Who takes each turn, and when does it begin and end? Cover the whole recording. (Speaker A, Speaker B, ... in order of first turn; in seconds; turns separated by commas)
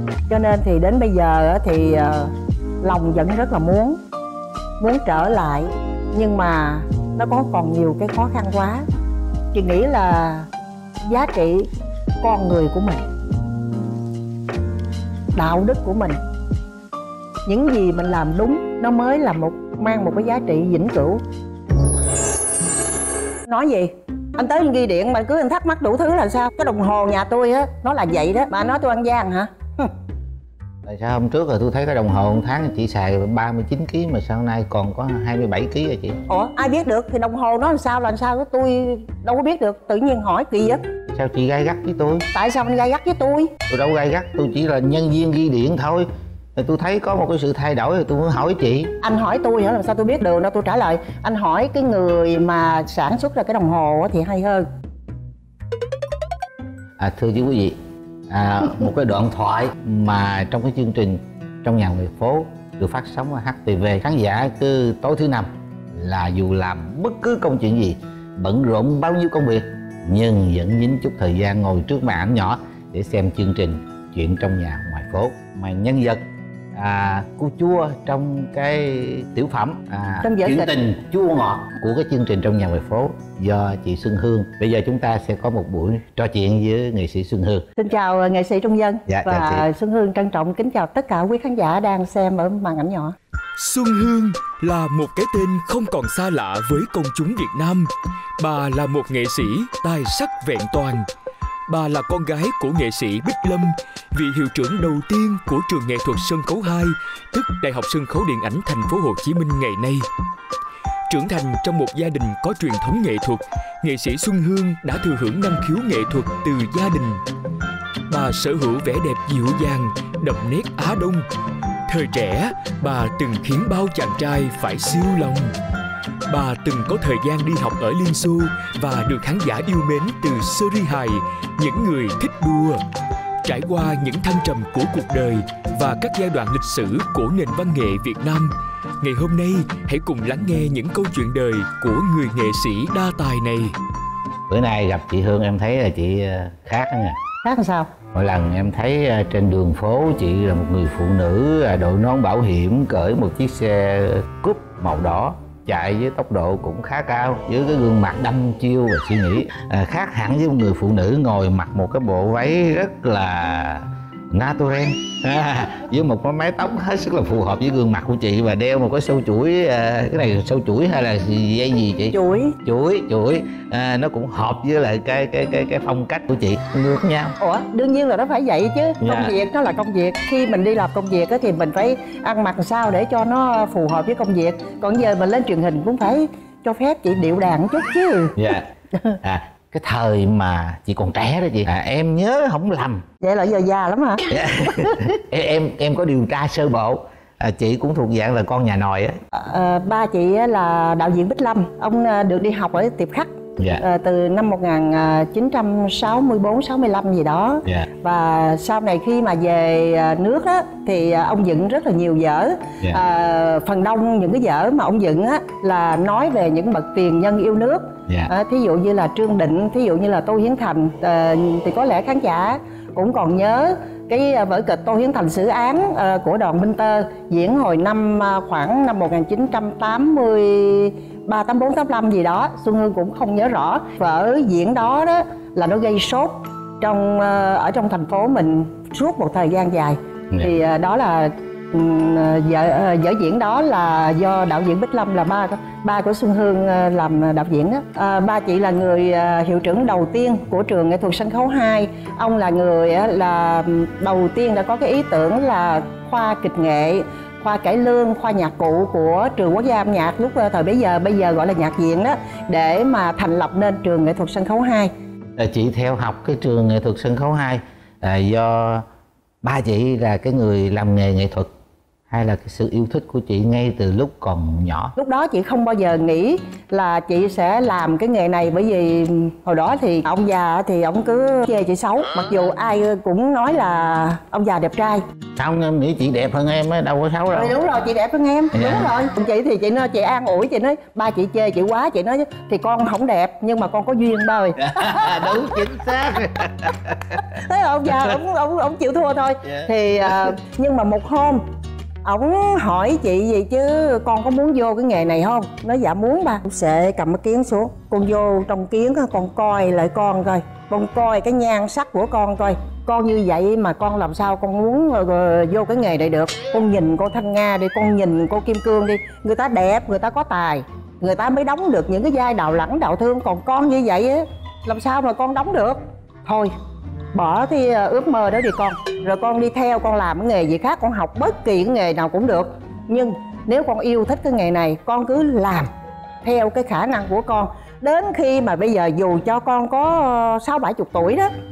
Speaker A: 0.3-4.0, Speaker A: 4.8-8.8, Speaker A: 9.5-10.5, Speaker A: 11.0-11.7, Speaker A: 12.2-13.0, Speaker A: 15.3-16.2, Speaker A: 17.4-21.2, Speaker A: 23.5-29.9, Speaker B: 30.9-36.2, Speaker A: 36.3-40.8, Speaker B: 41.1-42.3, Speaker A: 42.3-43.5, Speaker B: 43.7-48.9, Speaker A: 49.0-54.6, Speaker B: 57.0-57.8, Speaker B: 58.3-76.2, Speaker B: 76.7-87.7, Speaker A: 80.2-80.7, Speaker A: 87.8-93.1, Speaker B: 89.1-89.7, Speaker C: 93.6-101.0, Speaker C: 101.7-110.0, Speaker C: 111.1-117.2, Speaker C: 118.1-121.2, Speaker C: 121.9-125.5, Speaker C: 126.3-132.8, Speaker C: 133.4-143.8, Speaker B: 144.5-147.2, Speaker A: 147.4-147.9, Speaker B: 148.1-177.3, Speaker A: 172.1-172.6, Speaker A: 177.4-188.3, Speaker B: 179.0-179.3, Speaker B: 188.3-188.7, Speaker B: 189.2-193.0, Speaker A: 193.2-195.1, Speaker B: 194.3-199.2, Speaker A: 199.3-264.9, Speaker B: 203.6-203.8, Speaker B: 265.4-268.8, Speaker B: 269.4-271.5, Speaker B: 272.1-274.9, Speaker A: 275.0-285.0, Speaker B: 285.4-287.5, Speaker A: 287.3-295.6, Speaker B: 288.5-288.9, Speaker B: 294.6-297.2, Speaker A: 297.2-301.4, Speaker A: 302.0-326.5, Speaker A: 327.1-335.7, Speaker A: 336.2-341.3